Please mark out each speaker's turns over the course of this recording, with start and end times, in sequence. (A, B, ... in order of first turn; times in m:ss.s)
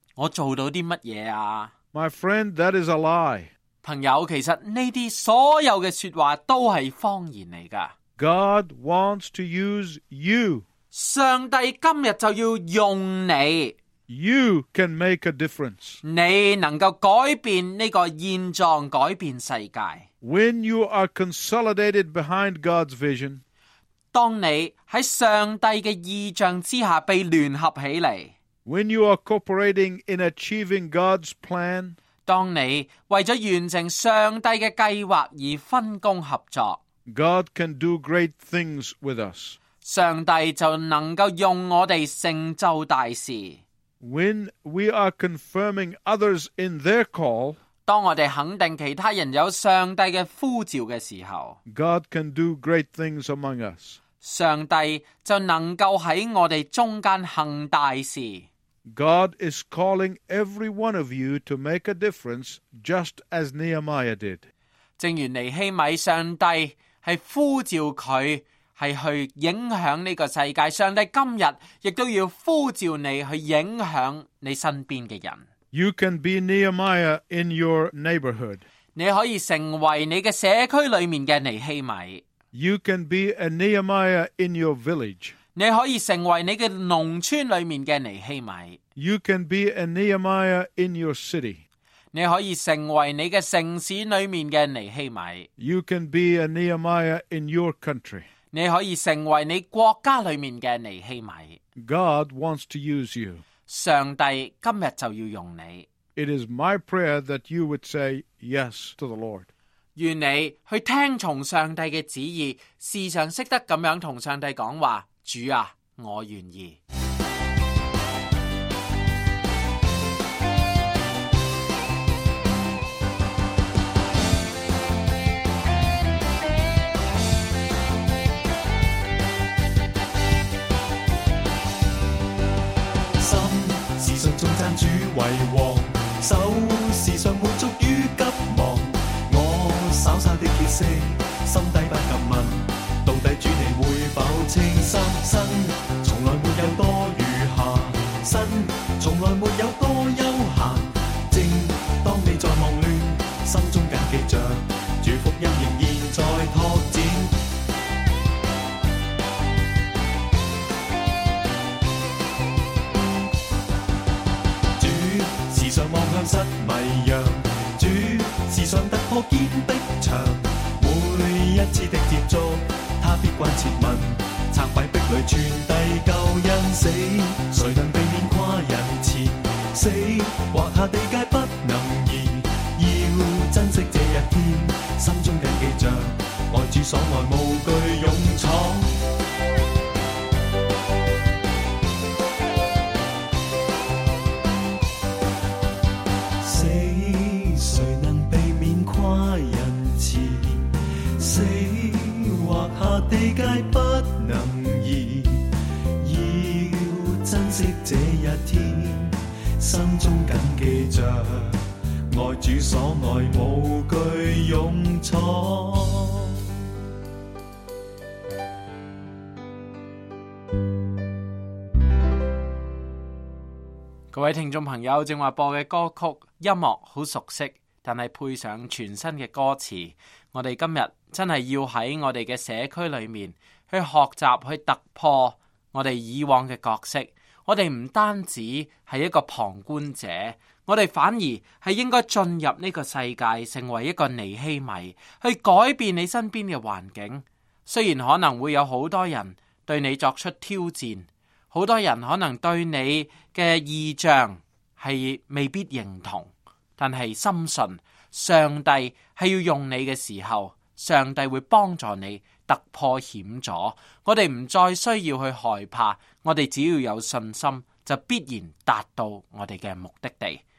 0:00.2-0:01.7 A
0:01.9-0:03.5 B
0:03.8-0:07.9 A
0:08.2-0:10.6 B
0:10.9-0:13.8 A
0:14.1-0:16.0 B
0:16.0-0:20.1 A
0:20.2-0:23.4 B
0:24.1-0:28.3 A
0:28.6-0:32.0 B
0:32.2-0:36.8 A
0:37.1-0:39.6 B
0:39.8-0:43.6 A
0:44.0-0:47.6 B
0:47.8-0:51.6 A
0:51.6-0:54.0 B
0:54.2-0:58.5 A
0:58.8-1:04.5 B
1:05.0-1:15.5 A
1:15.7-1:18.6 B
1:18.9-1:22.2 A
1:22.5-1:25.3 B
1:25.5-1:28.8 A
1:29.0-1:31.6 B
1:32.1-1:35.5 A
1:35.6-1:38.2 B
1:38.5-1:41.6 A
1:41.8-1:43.4 B
1:43.7-1:45.9 A
1:46.2-1:49.5 B
1:50.0-1:56.8 A
2:13.2-2:37.4 C
2:44.8-3:08.9 C
3:16.4-3:36.4 C
3:44.1-4:30.4 A